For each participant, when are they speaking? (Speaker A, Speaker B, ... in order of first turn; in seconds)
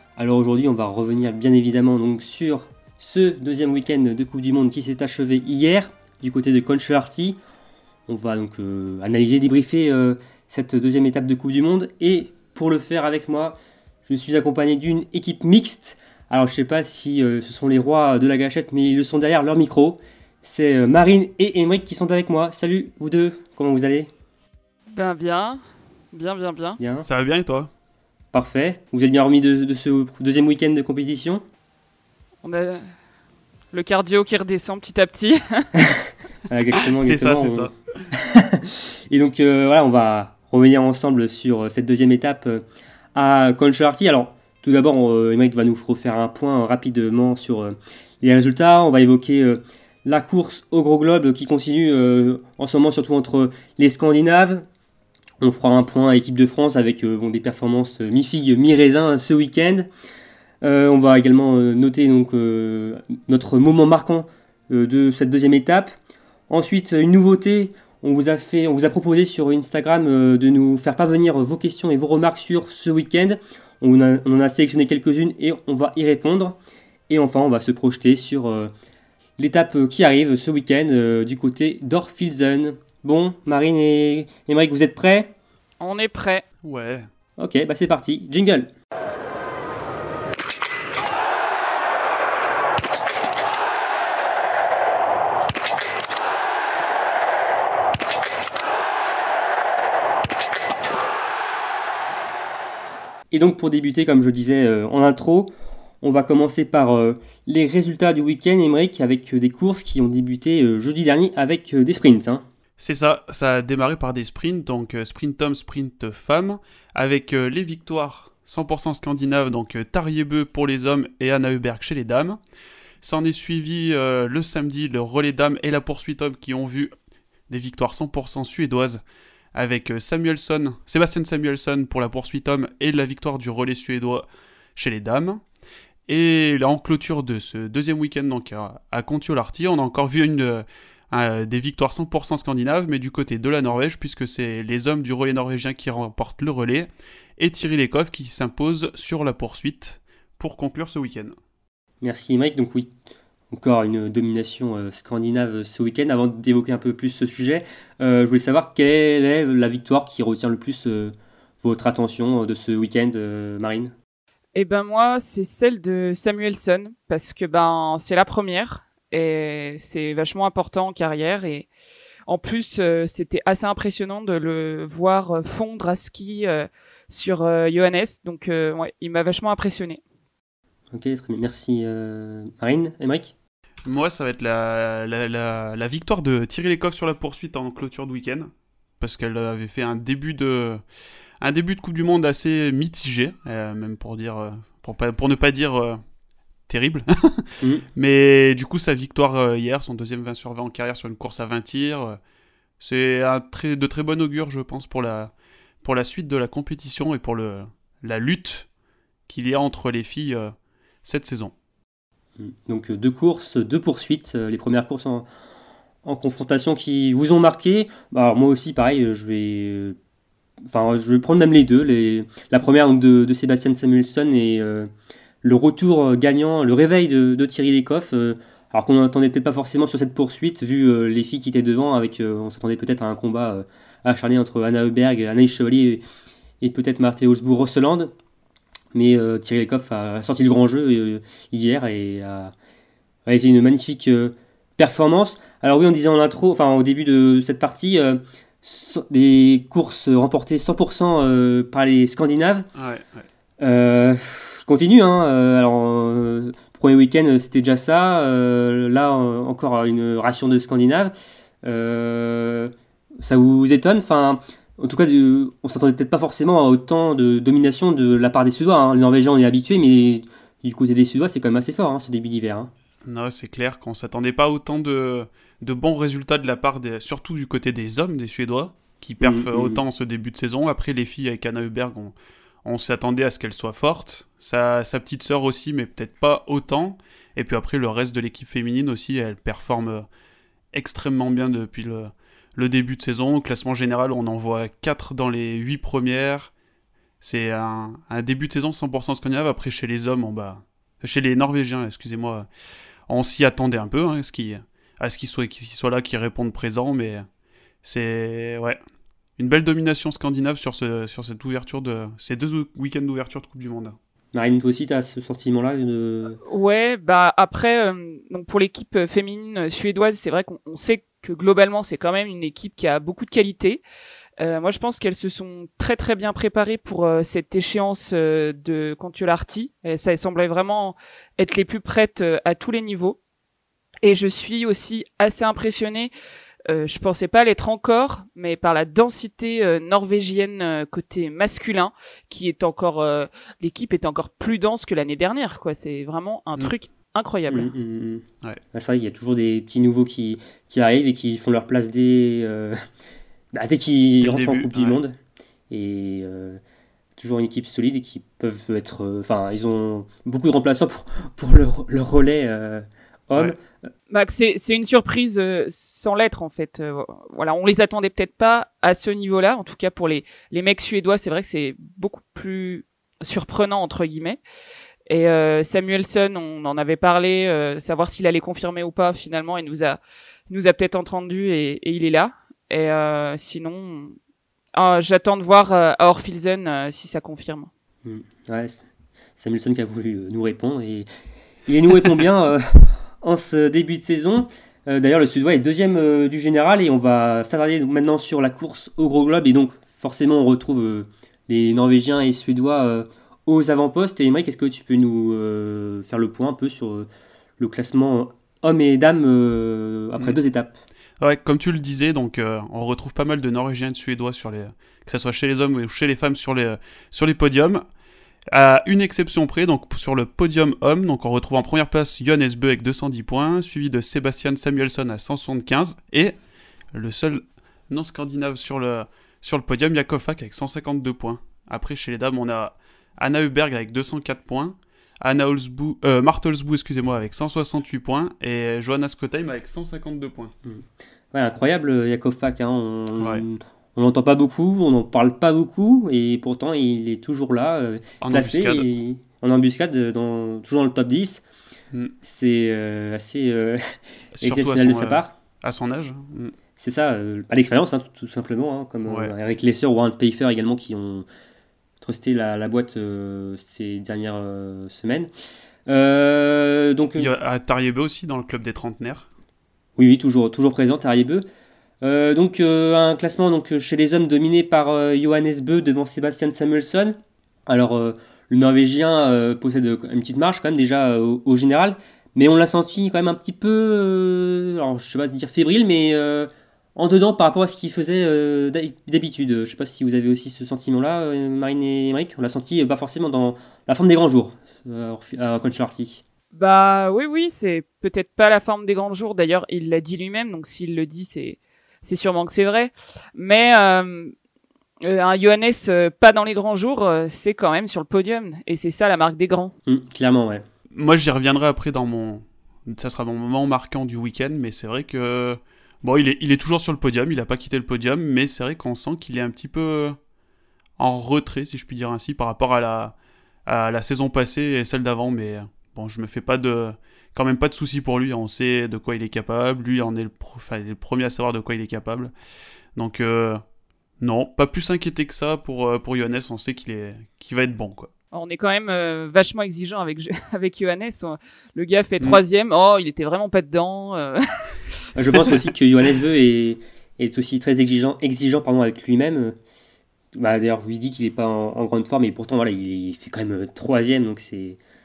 Speaker A: 0.2-7.4, 8.1-24.1, 26.8-27.1, 28.3-31.4, 35.8-42.6, 43.1-54.6, 55.4-59.9, 60.6-65.9, 66.5-76.6, 77.1-78.7, 79.4-85.3, 87.4-88.7, 103.3-112.4, 152.0-152.9, 153.5-163.9, 180.9-183.3, 212.4-215.3, 216.0-220.0, 220.6-224.9, 225.4-236.0, 236.6-238.1, 238.9-242.5, 243.2-252.7, 253.6-272.7, 279.2-279.8, 314.3-316.4, 347.5-352.8, 353.5-355.2, 355.7-356.6, 357.2-363.9, 388.0-388.8, 389.4-391.1, 391.7-407.1, 407.6-410.7, 440.6-451.4, 452.2-455.3, 456.8-461.2, 462.0-465.3, 465.9-467.3, 470.0-471.4, 472.0-496.2, 509.9-510.6, 545.1-549.5, 550.3-554.8
Speaker B: 24.9-25.6, 26.1-26.8, 32.4-32.8, 33.7-35.7, 85.8-86.4, 164.5-171.7, 172.3-180.0, 316.4-323.8, 324.4-333.2, 334.0-336.1, 336.7-347.7, 364.1-374.4, 375.1-384.1, 384.7-387.7, 496.5-504.3, 505.0-509.7, 538.3-544.4
Speaker C: 27.0-27.7, 37.0-37.7, 86.6-87.1, 112.8-122.4, 123.0-126.9, 127.5-129.0, 129.5-134.2, 134.8-135.4, 136.1-146.9, 147.4-151.3, 183.8-190.8, 191.4-196.0, 196.7-202.2, 202.8-208.7, 209.3-210.5, 211.0-211.5, 252.8-253.2, 273.1-290.0, 290.7-296.5, 297.2-302.5, 303.1-307.2, 307.8-308.8, 309.4-314.0, 354.2-355.0, 411.2-417.8, 418.5-426.3, 426.9-440.5, 448.2-448.9, 454.4-456.5, 459.1-459.3, 467.2-469.3, 510.9-520.2, 521.0-523.1, 523.7-532.3, 533.0-533.6, 534.2-538.1